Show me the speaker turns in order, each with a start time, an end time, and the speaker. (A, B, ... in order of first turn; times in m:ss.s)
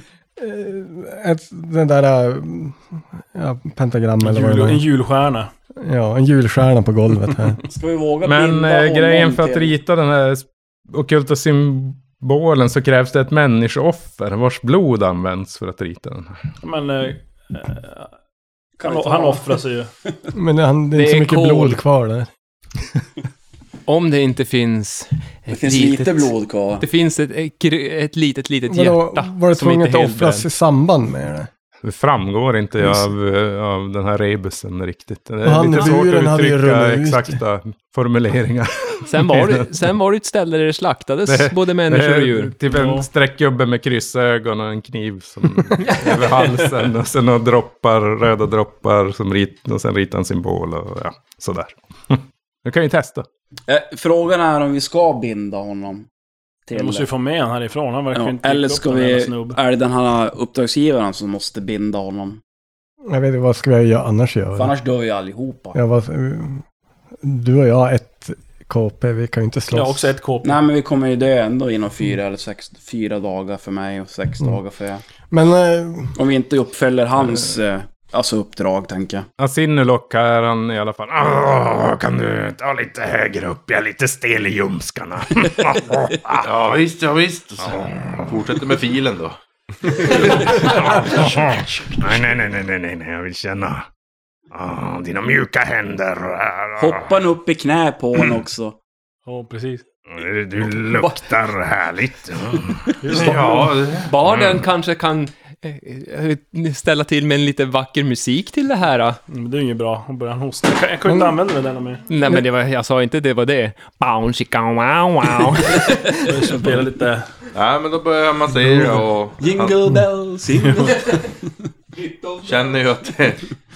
0:00.4-0:04.8 A
0:04.2-0:05.5 B
0:05.8-0:07.6 A
0:07.6-0:09.8 C
0:08.2-0:16.4 D
0:16.6-0:18.1 B
0:18.8-0:19.6 C
0:18.8-0:19.9 B
0:20.3-0:22.3 A
0:20.9-0:21.8 E
0:23.9-0:30.5 E
0:25.5-0:26.8 C
0:28.7-0:31.5 A
0:31.8-0:39.7 D
0:35.4-0:37.4 A
0:39.1-0:42.6 E
0:41.3-0:53.3 D
0:42.7-0:43.1 B
0:45.8-0:46.6 E
0:53.7-0:56.1 C
0:56.7-0:57.1 C
0:56.7-0:59.6 B
0:58.1-1:02.4 C
1:03.0-1:04.7 A
1:04.6-1:05.8 C
1:05.7-1:06.6 A
1:07.2-1:10.1 A
1:09.7-1:10.6 B
1:10.4-1:15.0 C
1:15.3-1:16.2 A
1:16.1-1:19.3 C
1:19.4-1:26.5 D
1:26.4-1:31.2 F
1:27.6-1:28.6 D
1:30.0-1:33.9 D
1:34.5-1:37.1 D
1:36.8-1:38.8 C
1:39.3-1:39.8 B
1:40.1-1:44.6 D
1:40.9-1:41.2 E
1:43.0-1:43.8 B
1:43.1-1:44.1 F
1:44.0-1:49.2 E
1:49.3-1:52.0 B
1:51.1-1:51.3 A
1:52.1-1:56.6 E
1:56.2-1:57.3 B
1:57.5-1:59.9 F
1:59.4-2:01.3 C
2:00.9-2:01.2 E
2:01.9-2:03.1 E
2:02.4-2:03.4 F